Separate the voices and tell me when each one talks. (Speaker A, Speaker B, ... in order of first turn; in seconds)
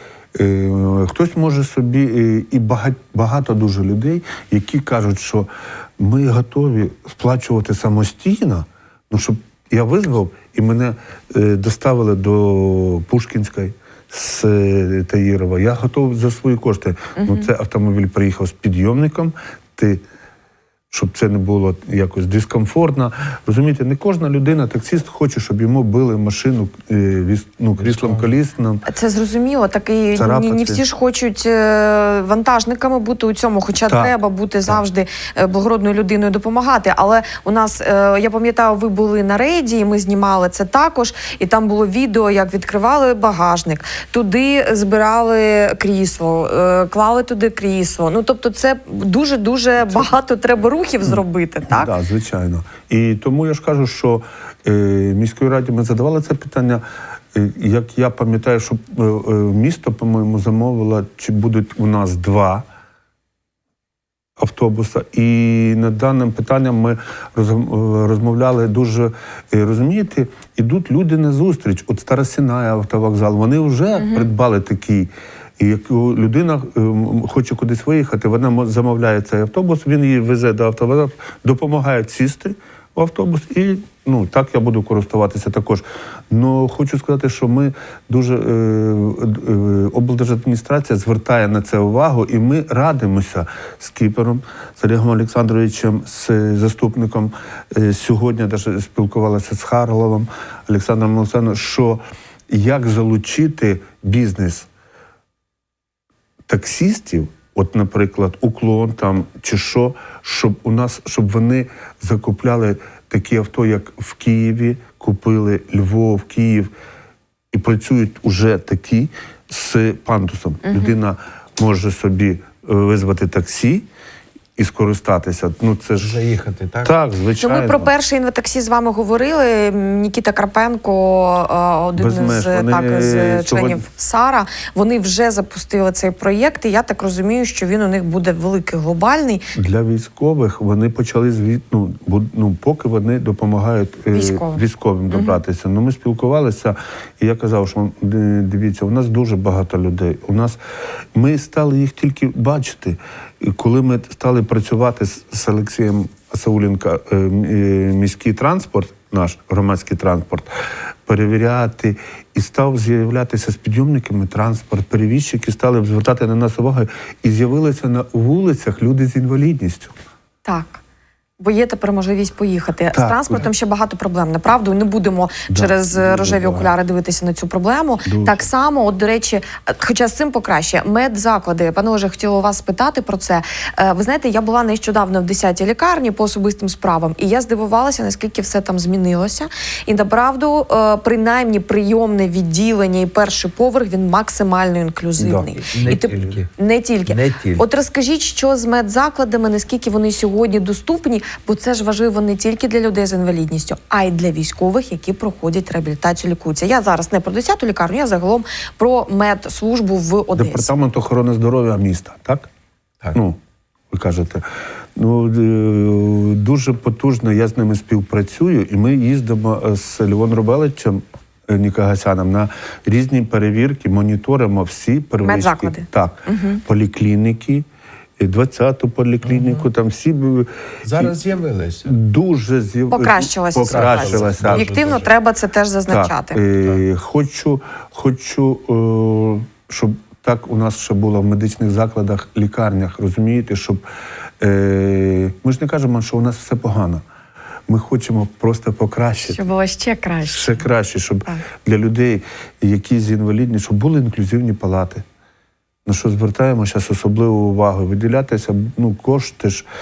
Speaker A: 0.3-20.0, 20.9-28.8, 30.1-30.8, 33.8-34.1, 51.7-62.7, 64.4-104.7, 106.5-116.7, 117.5-123.9, 124.6-126.2, 126.8-127.9, 132.0-133.8, 139.6-150.6, 151.2-160.5, 161.1-169.9, 172.9-173.5, 175.5-176.7, 178.1-178.4, 195.2-196.3, 210.3-212.5, 213.1-213.4, 213.9-214.4, 215.0-227.7, 228.2-231.1, 231.8-234.7, 235.9-243.8, 244.4-247.0, 247.7-249.4, 250.3-255.1, 255.9-259.6
Speaker B: 17.2-17.5, 28.9-51.9, 120.6-121.0, 127.4-139.4, 144.1-145.4, 170.4-170.8, 171.4-210.7, 225.2-226.6, 232.9-236.4, 249.2-250.7
Speaker C: 27.8-28.3, 126.0-127.0, 195.7-196.5, 197.1-197.6, 229.2-229.7, 230.8-231.9, 233.7-235.1